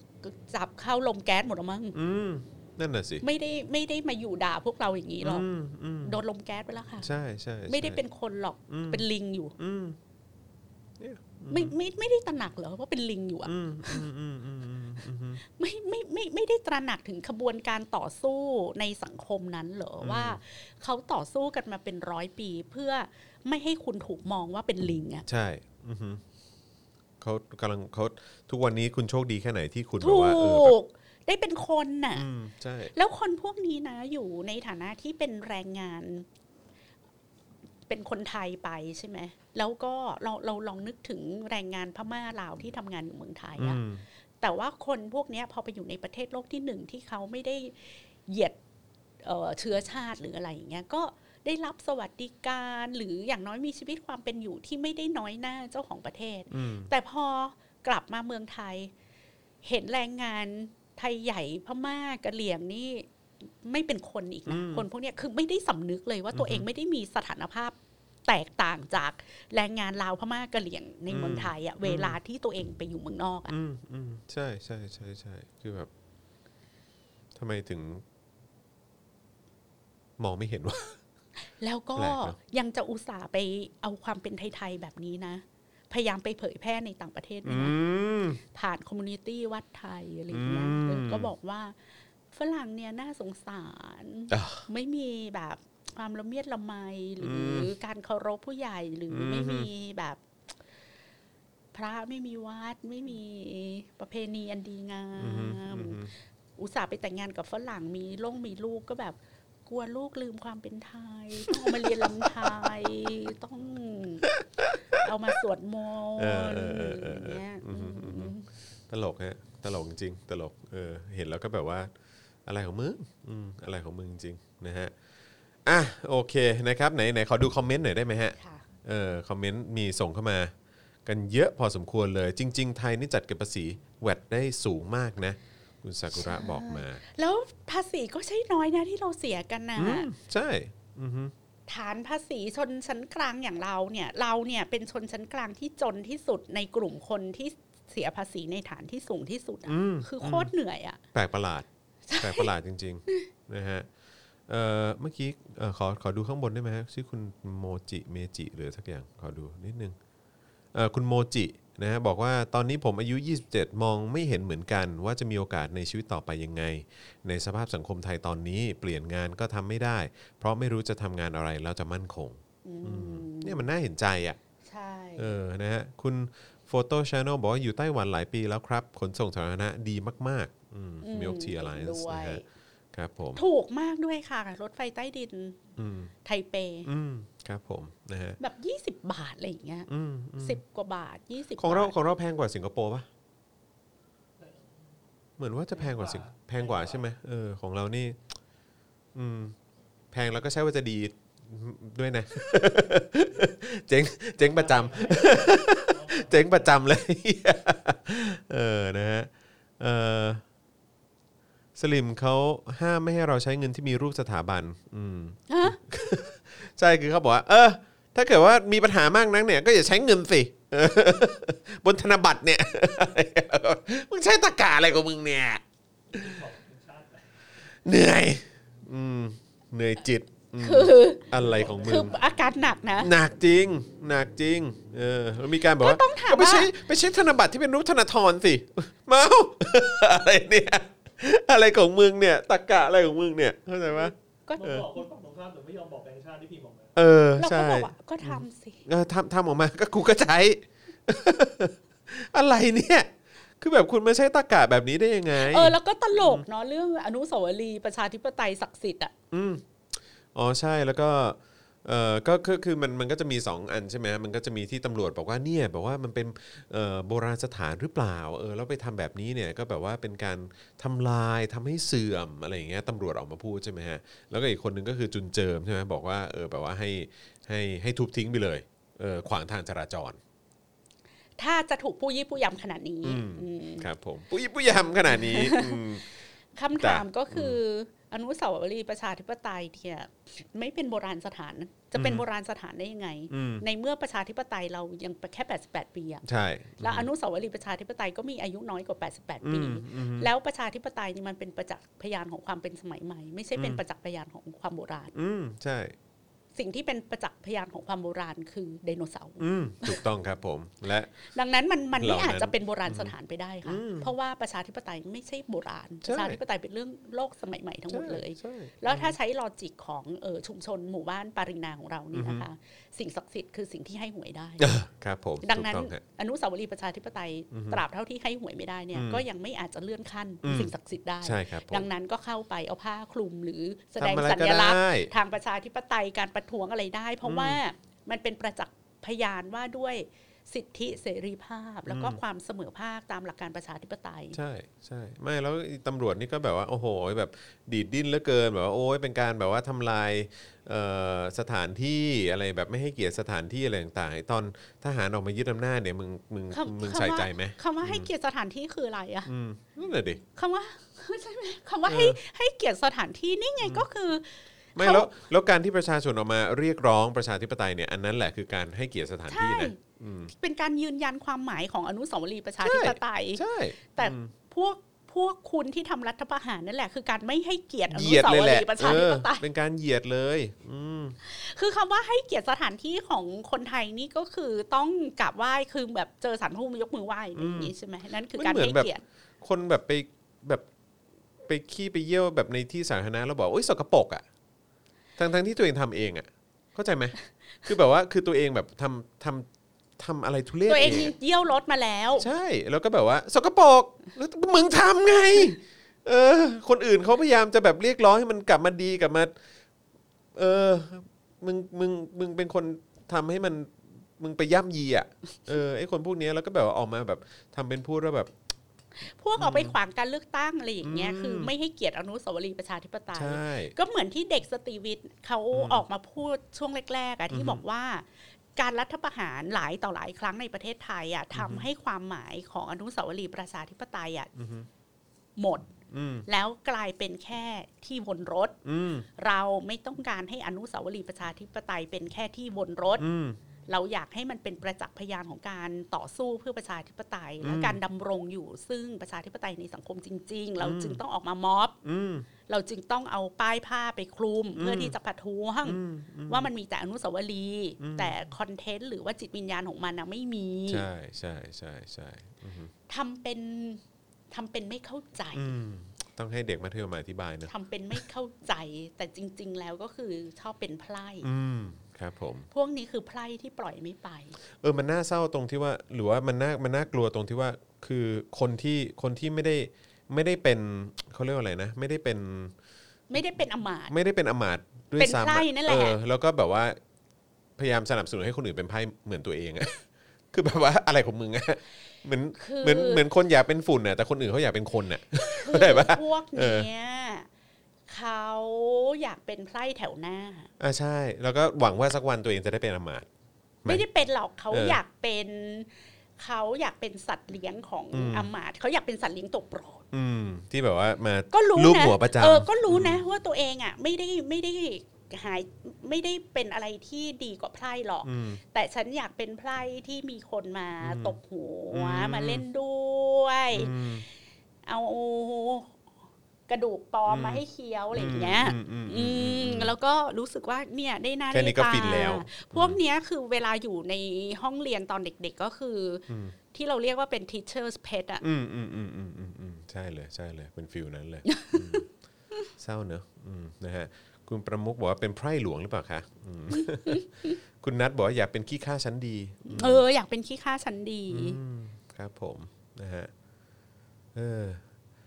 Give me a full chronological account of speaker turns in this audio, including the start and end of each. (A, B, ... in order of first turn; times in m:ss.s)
0:00.2-0:02.0 A
0:01.9-0:03.2 B
0:03.2-0:05.5 A
0:05.2-0:06.2 B
0:06.0-0:07.1 A
0:07.0-0:08.0 B
0:07.7-0:09.6 A
0:08.7-0:09.0 B
0:09.6-0:10.0 B
0:11.0-0:11.7 B
0:11.5-0:14.0 A
0:13.4-0:15.4 B
0:15.4-0:25.2 A
0:20.0-0:20.4 B
0:25.3-0:26.2 B
0:27.2-0:30.7 B
0:30.0-0:32.2 A
0:32.1-0:32.9 B
0:32.9-0:36.2 A
0:37.9-0:43.8 A
0:43.6-0:44.0 B
0:44.4-0:48.6 A
0:49.2-0:58.9 A
0:56.5-0:56.9 B
0:59.6-1:07.8 A
1:04.5-1:04.8 B
1:06.3-1:06.6 B
1:08.3-1:13.5 A
1:11.1-1:12.2 B
1:13.5-1:15.9 B
1:17.3-1:18.0 B
1:20.2-1:21.0 B
1:21.6-1:27.8 A
1:22.0-1:22.4 B
1:27.4-1:28.4 B
1:28.5-1:31.8 A
1:30.3-1:31.3 B
1:32.3-1:40.2 A
1:34.3-1:34.6 B
1:37.2-1:37.7 B
1:39.1-1:39.7 B
1:41.7-1:46.0 A
1:45.2-1:46.1 B
1:46.6-1:54.3 A
1:51.5-1:52.7 B
1:54.3-1:54.8 B
1:55.0-1:58.5 A
1:56.2-1:58.3 B
1:58.9-2:01.9 B
2:02.4-2:04.9 B
2:05.6-2:10.5 B
2:08.4-2:08.6 A
2:11.0-2:17.0 B
2:16.1-2:20.1 A
2:19.8-2:21.3 B
2:21.7-2:31.0 A
2:29.6-2:30.5 B
2:31.1-2:31.6 B
2:32.1-2:32.5 A
2:32.2-2:33.9 B
2:34.5-2:40.0 B
2:40.7-2:54.4 B
2:52.6-2:53.6 A
2:54.6-2:55.3 A
2:55.2-3:03.4 B
3:01.0-3:02.4 A
3:03.3-3:05.6 A
3:05.8-3:06.1 B
3:06.2-3:06.9 A
3:06.8-3:08.4 B
3:08.4-3:09.9 A
3:09.9-3:10.6 B
3:10.4-3:11.9 A
3:11.6-3:13.1 B
3:15.4-3:18.2 B
3:15.8-3:17.1 C
3:19.1-3:19.6 B
3:20.1-3:30.4 B
3:24.4-3:26.8 C
3:31.8-3:45.6 B
3:35.5-3:35.8 A
3:46.1-3:47.2 C
3:47.8-3:52.1 B
3:50.6-3:53.1 A
3:51.4-3:52.1 C
3:53.0-4:04.9 B
3:55.8-3:56.7 A
4:04.5-4:04.8 A
4:04.5-4:07.0 C
4:07.0-4:16.4 B
4:07.4-4:08.8 A
4:15.3-4:19.1 A
4:19.3-4:19.6 B
4:20.3-4:40.2 B
4:41.4-4:43.9 A
4:43.0-4:46.2 B
4:45.1-4:45.8 A
4:46.5-4:56.2 A
4:46.8-4:47.6 B
4:51.9-4:52.2 B
4:53.3-4:53.6 B
4:56.2-4:57.1 B
4:56.8-5:05.1 A
4:59.4-5:00.3 B
5:05.1-5:05.9 B
5:06.6-5:10.0 A
5:09.4-5:11.1 B
5:11.2-5:24.7 A
5:12.0-5:13.1 B
5:13.6-5:14.1 B
5:16.0-5:16.4 B
5:17.9-5:19.2 B
5:22.1-5:22.4 B
5:24.6-5:26.0 B
5:25.4-5:44.4 A
5:27.5-5:27.8 B
5:28.9-5:29.2 B
5:30.4-5:31.9 B
5:34.0-5:35.1 B
5:37.2-5:37.6 B
5:41.9-5:42.2 B
5:44.3-5:58.1 B
5:56.5-5:59.3 A
5:59.2-6:00.2 B
6:00.3-6:05.1 A
6:01.9-6:02.2 B
6:04.8-6:10.3 B
6:09.3-6:09.8 A
6:10.3-6:19.4 A
6:12.6-6:14.3 B
6:17.9-6:21.2 B
6:21.2-6:29.0 A
6:27.3-6:27.7 B
6:28.3-6:30.6 B
6:31.4-6:34.2 B
6:35.2-6:39.5 B
6:40.0-6:41.1 B
6:40.7-6:42.3 A
6:42.2-6:49.3 B
6:50.3-6:58.3 B
6:59.1-7:14.3 A
6:59.4-6:59.7 B
7:00.8-7:01.5 B
7:03.1-7:03.7 B
7:05.5-7:05.8 B
7:07.3-7:07.6 B
7:11.3-7:11.7 B
7:14.4-7:14.7 B
7:15.4-7:15.7 A
7:15.9-7:16.2 B
7:16.2-7:18.6 A
7:18.6-7:19.1 B
7:19.2-7:23.0 A
7:23.0-7:23.4 B
7:23.7-7:31.8 A
7:27.4-7:27.8 B
7:30.6-7:31.0 B
7:31.8-7:32.3 B
7:32.5-7:40.8 A
7:34.5-7:34.9 B
7:35.6-7:36.5 B
7:37.8-7:38.2 B
7:40.7-7:42.7 B
7:42.9-7:45.5 A
7:45.3-7:48.0 B
7:47.5-7:51.3 A
7:51.2-7:52.5 B
7:52.5-7:54.4 A
7:54.6-8:02.5 B
8:03.1-8:03.9 A
8:03.9-8:06.8 B
8:05.0-8:06.0 A
8:07.6-8:16.7 B
8:12.4-8:13.0 A
8:15.2-8:17.3 A
8:17.9-8:20.5 A
8:20.6-8:23.1 B
8:23.6-8:29.8 A
8:24.5-8:24.8 B
8:27.9-8:28.3 B
8:29.9-8:33.0 B
8:31.3-8:43.8 A
8:38.0-8:38.4 B
8:40.8-8:41.2 B
8:41.7-8:42.4 B
8:43.5-8:44.0 B
8:44.6-8:45.7 A
8:46.5-8:58.2 A
8:47.1-8:49.7 B
8:51.3-8:52.8 B
8:56.1-8:56.3 B
8:58.2-9:01.9 B
9:01.2-9:01.8 A
9:02.6-9:09.8 B
9:06.6-9:07.3 A
9:09.4-9:11.4 A
9:11.1-9:13.1 B
9:14.1-9:14.6 B